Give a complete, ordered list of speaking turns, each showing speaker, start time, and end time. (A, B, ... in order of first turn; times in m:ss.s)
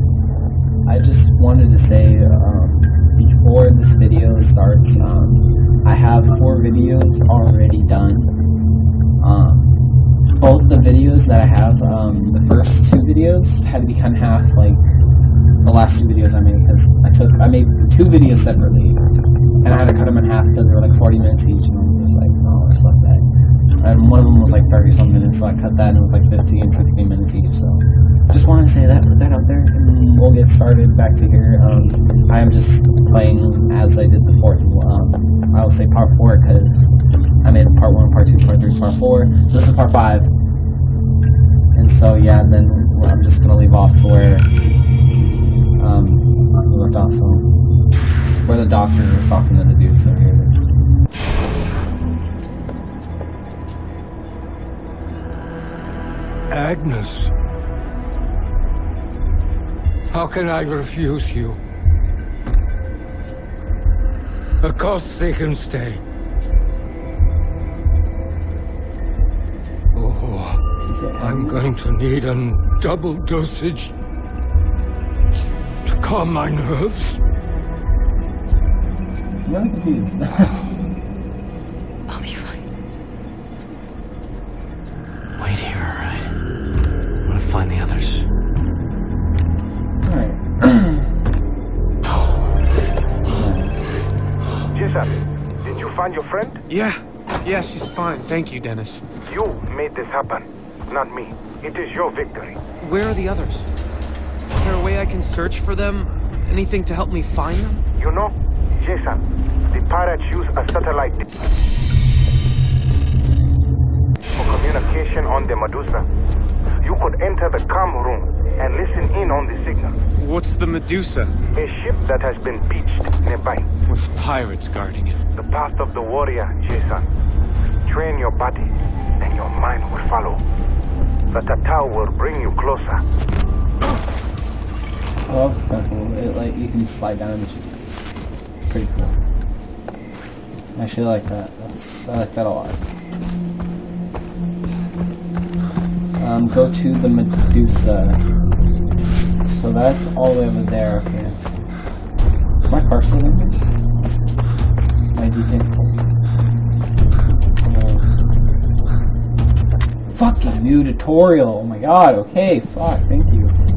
0:00.9-0:08.3 A
0:09.2-0:09.7 A
0:10.4-0:14.8 A
0:15.6-0:19.0 A
0:19.6-0:23.2 A
0:23.8-0:36.9 A
0:37.4-0:40.3 A
0:41.8-0:44.5 A
0:45.8-0:47.4 A
0:48.2-0:50.6 A
0:56.5-0:57.3 B
1:00.1-1:01.6 B
1:04.6-1:06.0 B
1:09.9-1:10.6 B
1:10.8-1:11.8 A
1:11.2-1:13.9 B
1:15.8-1:17.2 B
1:19.4-1:20.5 A
1:22.1-1:22.6 C
1:25.4-1:26.3 C
1:27.3-1:28.3 C
1:30.0-1:31.1 A
1:33.2-1:34.1 A
1:34.7-1:36.6 D
1:36.7-1:39.0 E
1:39.3-1:42.6 D
1:42.8-1:43.7 E
1:44.6-1:47.8 E
1:48.0-1:51.2 D
1:54.4-1:56.0 D
1:56.8-2:00.0 D
2:00.2-2:01.4 E
2:01.6-2:03.7 D
2:03.9-2:05.2 E
2:05.4-2:07.1 D
2:07.8-2:10.4 D
2:11.3-2:13.0 D
2:15.3-2:17.7 A
2:18.6-2:19.2 A
2:20.8-2:22.8 A
2:26.2-2:28.2 A
2:29.4-2:31.6 A
2:32.6-2:33.6 A
2:35.1-2:36.0 A
2:37.6-2:38.2 A
2:40.1-2:43.5 A